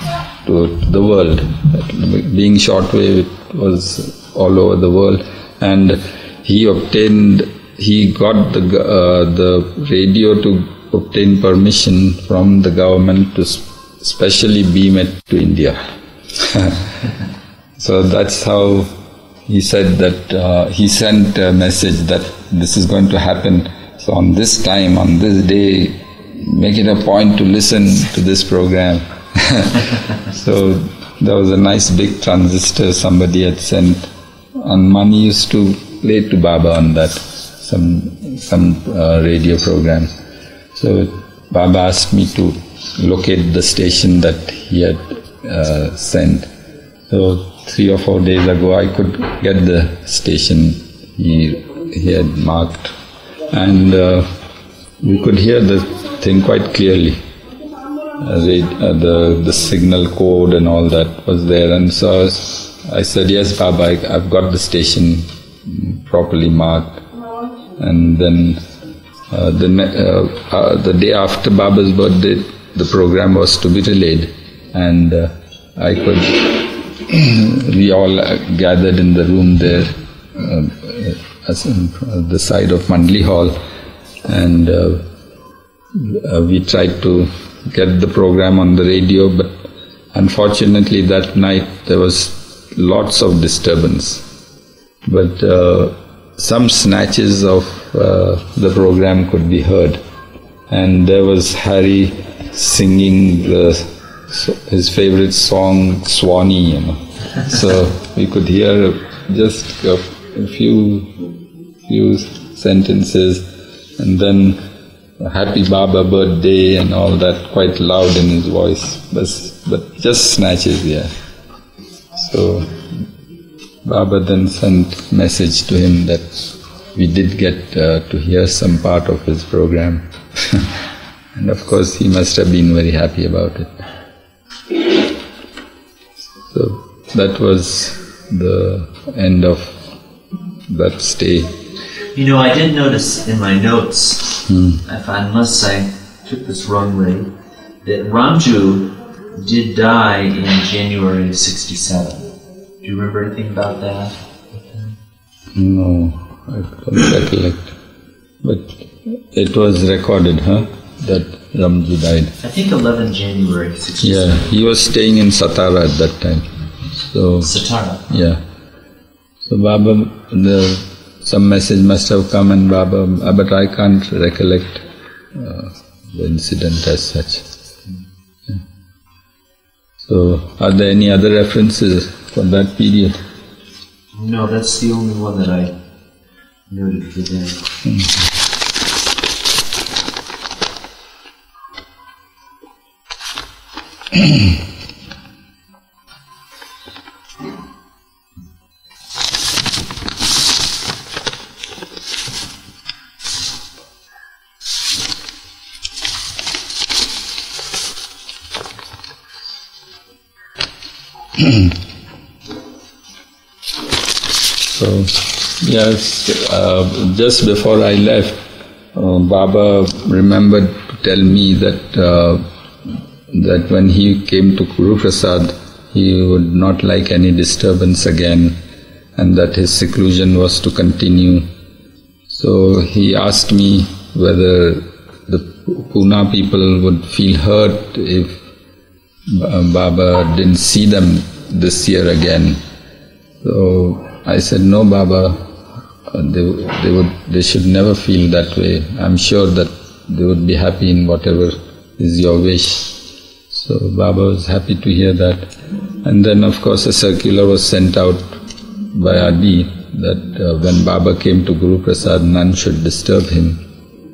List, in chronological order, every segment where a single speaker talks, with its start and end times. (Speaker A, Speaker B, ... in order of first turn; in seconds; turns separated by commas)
Speaker A: 0.4-17.1, Speaker A: 17.8-18.9, Speaker A: 19.5-40.1, Speaker A: 40.7-46.5, Speaker A: 47.1-53.0, Speaker A: 53.5-54.3, Speaker A: 55.0-57.2, Speaker A: 58.2-67.0, Speaker A: 67.8-68.6, Speaker A: 69.3-83.6, Speaker A: 84.3-85.0, Speaker A: 85.9-89.6, Speaker A: 90.1-94.2, Speaker A: 95.0-100.0, Speaker A: 100.7-111.2, Speaker A: 111.9-113.5, Speaker A: 114.0-114.6, Speaker A: 115.2-121.1, Speaker A: 122.2-123.1, Speaker A: 123.8-130.8, Speaker A: 131.3-133.8, Speaker A: 136.5-139.8, Speaker A: 140.7-141.5, Speaker B: 142.1-147.3, Speaker A: 144.5-144.8, Speaker B: 147.8-154.2, Speaker A: 155.5-157.8, Speaker A: 158.4-162.3, Speaker B: 162.4-164.6, Speaker A: 164.0-167.5, Speaker B: 167.4-168.1, Speaker A: 168.1-168.4, Speaker A: 169.4-177.5, Speaker A: 180.0-183.2, Speaker B: 184.1-185.8, Speaker B: 186.7-187.6, Speaker A: 211.4-211.7, Speaker A: 214.7-218.4, Speaker A: 218.9-222.4, Speaker A: 223.3-228.6, Speaker A: 229.2-231.5, Speaker A: 232.3-238.4, Speaker A: 239.3-242.6, Speaker A: 243.4-245.4, Speaker A: 246.1-255.5, Speaker A: 256.0-263.6